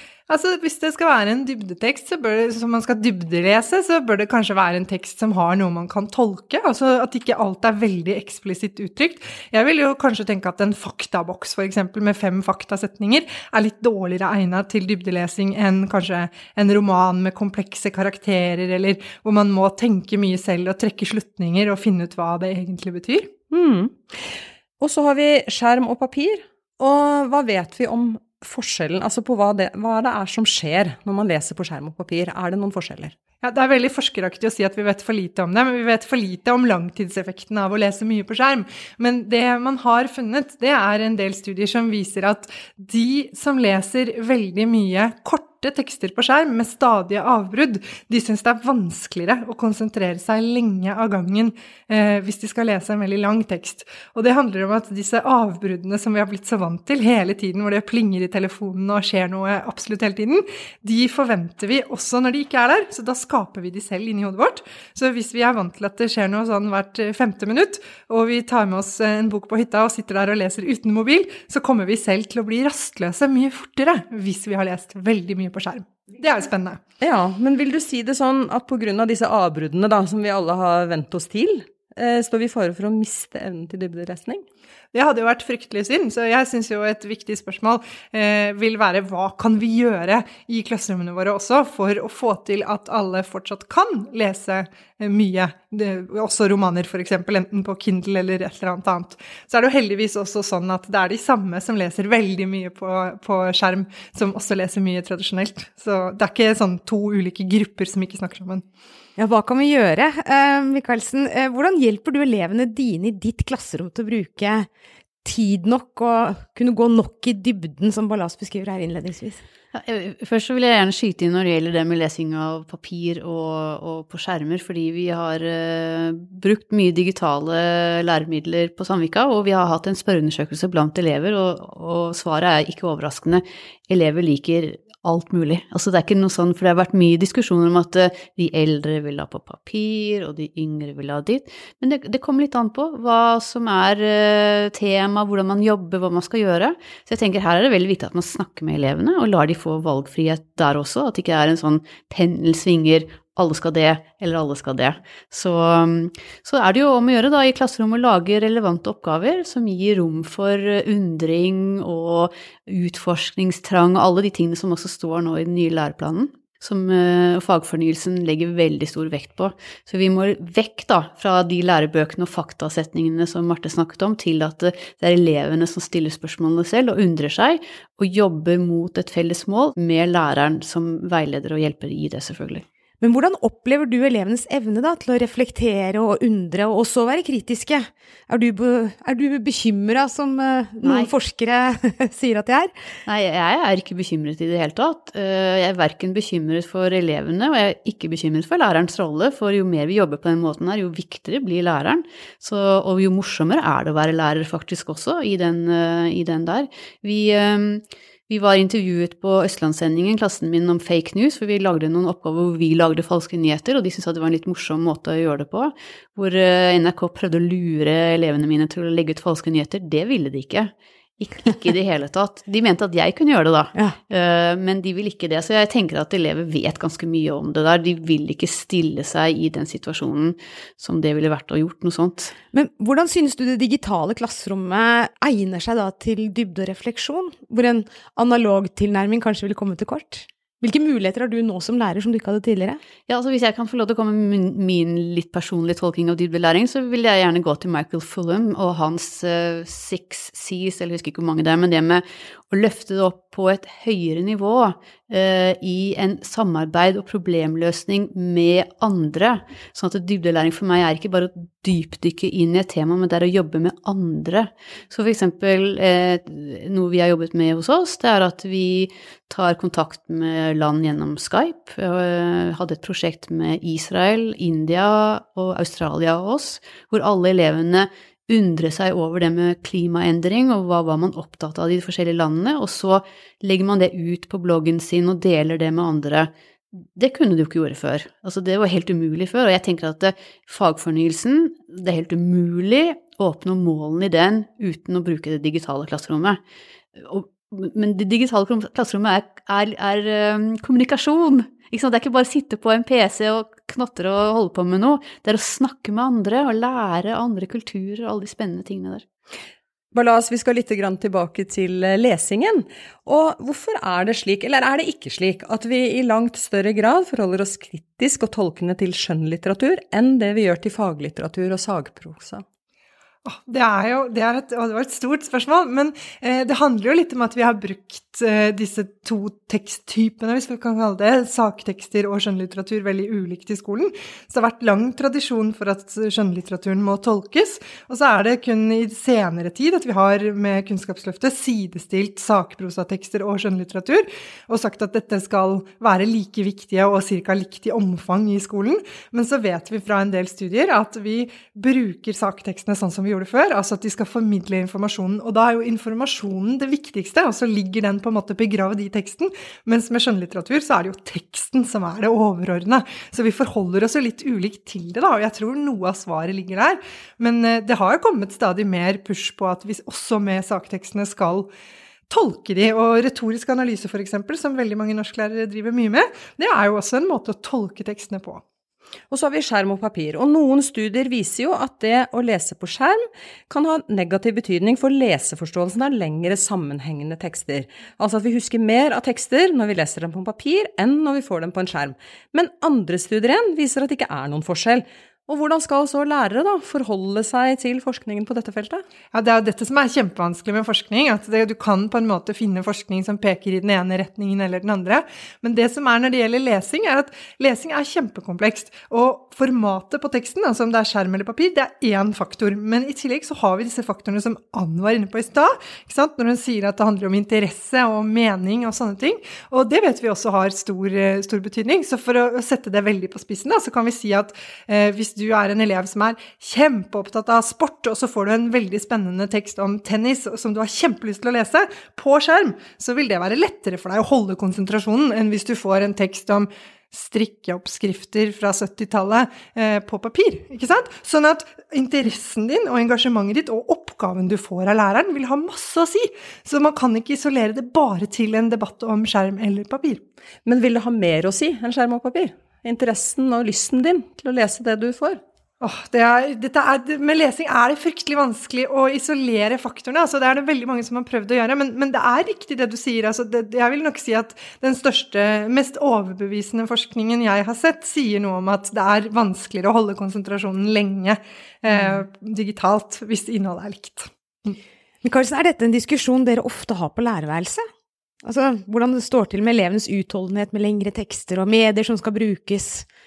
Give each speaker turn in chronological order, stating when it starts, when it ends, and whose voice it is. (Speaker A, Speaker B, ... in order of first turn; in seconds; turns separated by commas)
Speaker A: 0.3-23.3, Speaker B: 23.5-23.9, Speaker B: 24.8-33.1, Speaker A: 33.4-76.8, Speaker B: 77.0-84.5, Speaker A: 84.9-108.6, Speaker C: 109.2-114.7, Speaker C: 115.2-119.4, Speaker D: 119.7-182.6, Speaker C: 183.0-192.7, Speaker D: 190.8-191.1, Speaker D: 193.1-232.3, Speaker C: 232.5-242.8, Speaker D: 243.1-296.4, Speaker D: 297.0-309.1, Speaker B: 309.9-322.4, Speaker A: 323.2-371.5, Speaker A: 372.1-378.4, Speaker B: 379.1-398.8, Speaker A: 399.1-450.0, Speaker B: 450.5-455.2, Speaker A: 455.6-474.6, Speaker C: 475.0-477.6, Speaker C: 478.2-482.9